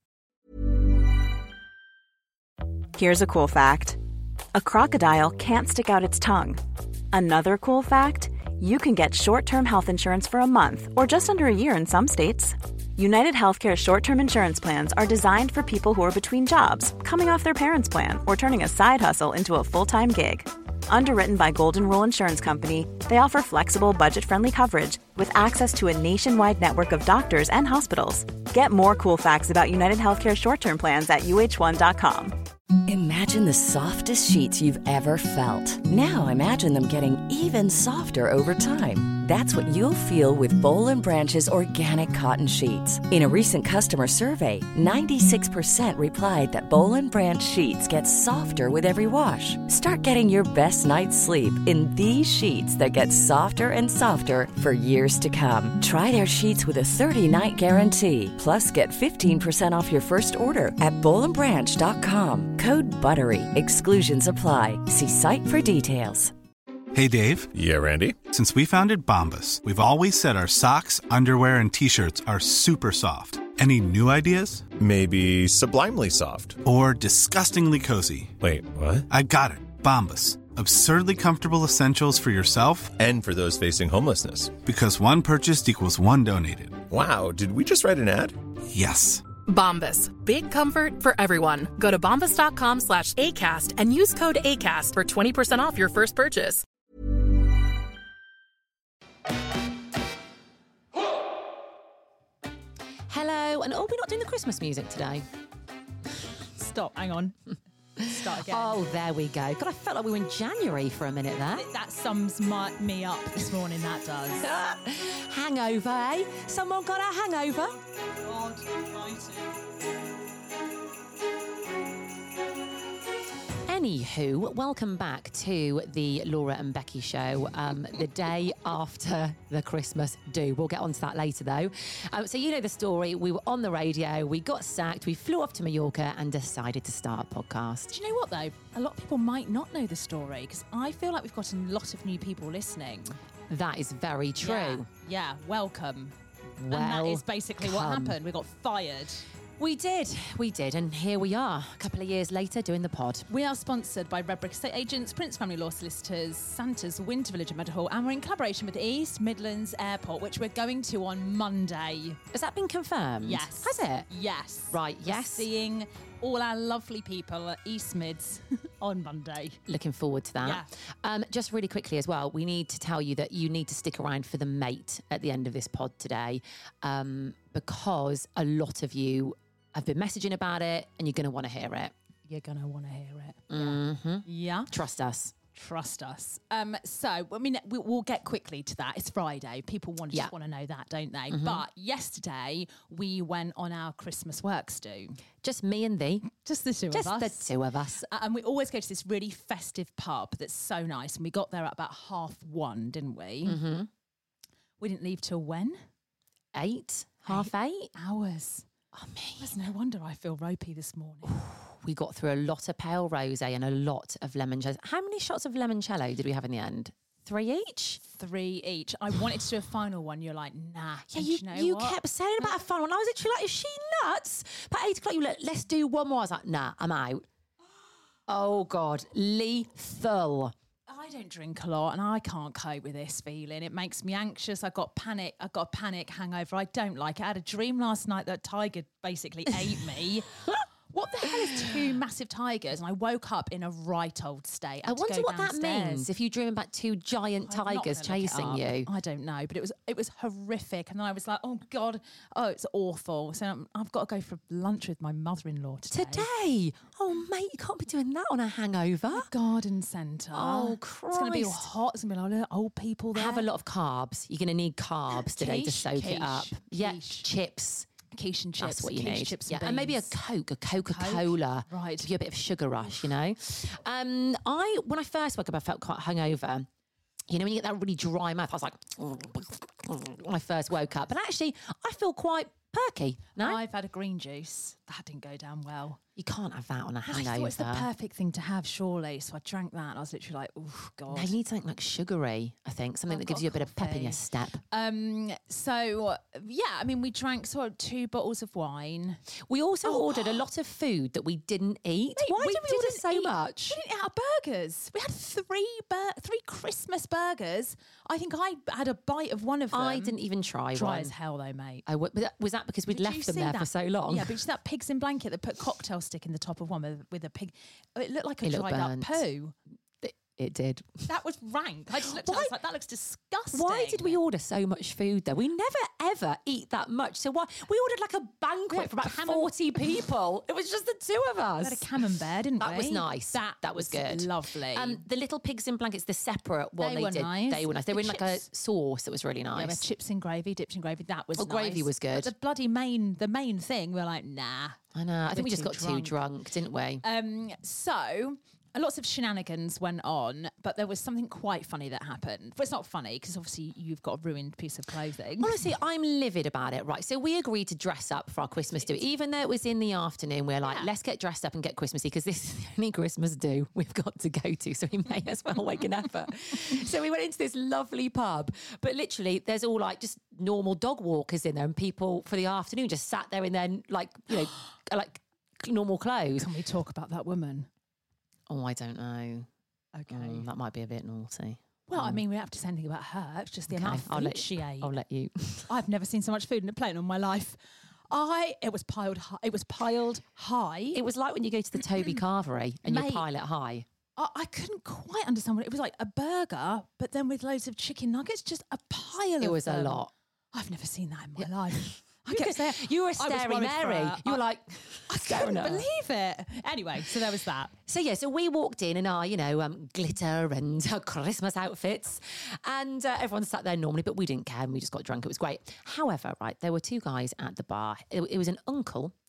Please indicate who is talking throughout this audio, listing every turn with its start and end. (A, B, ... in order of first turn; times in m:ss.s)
0:02.9-0:04.0 A
0:04.5-0:06.6 A
0:07.1-0:32.3 A
0:32.9-1:06.3 B
1:06.9-1:07.5 C
1:07.5-1:08.2 D
1:08.2-1:14.7 C
1:14.8-1:16.6 D
1:16.6-1:18.4 C
1:18.4-1:19.1 D
1:19.1-1:22.9 C
1:23.0-1:24.6 D
1:24.6-1:26.8 C
1:26.9-1:28.4 D
1:28.7-1:29.3 C
1:29.4-1:36.6 E
1:43.1-1:45.2 F
1:46.6-1:47.4 G
1:48.0-1:48.8 G
1:48.0-1:51.6 F
1:51.5-1:54.4 G
1:54.4-1:57.8 F
1:58.2-1:59.5 G
2:03.7-2:17.9 F
2:17.9-2:23.2 G
2:23.5-2:24.8 F
2:24.4-2:26.2 G
2:26.6-2:28.2 F
2:26.7-2:29.2 G
2:29.6-2:33.3 F
2:33.3-2:42.2 G
2:42.3-2:44.1 F
2:43.2-2:49.6 G
2:44.7-2:45.5 F
2:49.7-3:01.9 F
2:50.4-2:50.7 G
3:02.3-3:04.7 G
3:03.5-3:05.3 F
3:05.5-3:15.2 G
3:11.3-3:11.6 F
3:15.4-3:16.3 F
3:16.3-3:17.5 G
3:16.9-3:18.1 F
3:18.1-3:23.6 G
3:23.4-3:23.9 F
3:24.8-3:25.8 G
3:26.5-3:27.9 F
3:27.3-3:28.6 G
3:28.9-3:29.5 F
3:29.4-3:31.4 G
3:31.3-3:38.0 F
3:38.1-3:42.5 G
3:41.1-3:47.2 F
3:48.3-3:50.5 F
3:50.9-4:00.3 G
4:00.9-4:06.1 G
4:04.8-4:08.9 F
4:07.4-4:16.3 G
4:15.9-4:19.3 F
4:19.1-4:23.5 G
4:20.3-4:21.7 F
4:23.1-4:27.9 F
4:25.1-4:27.3 G
4:28.1-4:30.1 G
4:28.6-4:36.7 F
4:30.8-4:32.1 G
4:37.3-4:43.6 F
4:43.4-4:46.0 G
4:46.2-4:47.9 F
4:47.1-4:51.4 G
4:51.1-4:54.6 F
4:53.1-4:59.2 G
4:59.4-5:03.8 F
4:59.8-5:00.4 G
5:02.2-5:10.1 G
5:09.7-5:11.1 F
5:10.7-5:11.8 G
5:11.8-5:14.4 F
5:12.9-5:19.5 G
5:18.4-5:19.2 F
5:20.0-5:21.0 F
5:21.1-5:24.2 G
5:22.2-5:22.5 F
5:23.5-5:31.8 F
5:28.7-5:30.0 G
5:31.6-5:35.0 G
5:32.6-5:39.8 F
5:36.8-5:38.4 G
5:39.5-5:44.8 G
5:41.4-5:42.3 F
5:44.9-5:47.0 F
5:45.3-5:46.2 G
5:47.0-5:55.7 G
5:55.4-6:16.5 F
6:00.6-6:00.9 G
6:16.4-6:17.7 G
6:18.5-6:19.5 F
6:19.9-6:20.5 G
6:20.1-6:22.2 F
6:21.9-6:24.9 G
6:23.7-6:25.7 F
6:25.7-6:27.6 G
6:28.1-6:31.0 G
6:30.9-6:33.8 F
6:32.8-6:33.2 G
6:34.2-6:44.4 G
6:39.4-6:40.1 F
6:41.4-6:45.8 F
6:45.1-6:47.7 G
6:47.9-6:59.1 F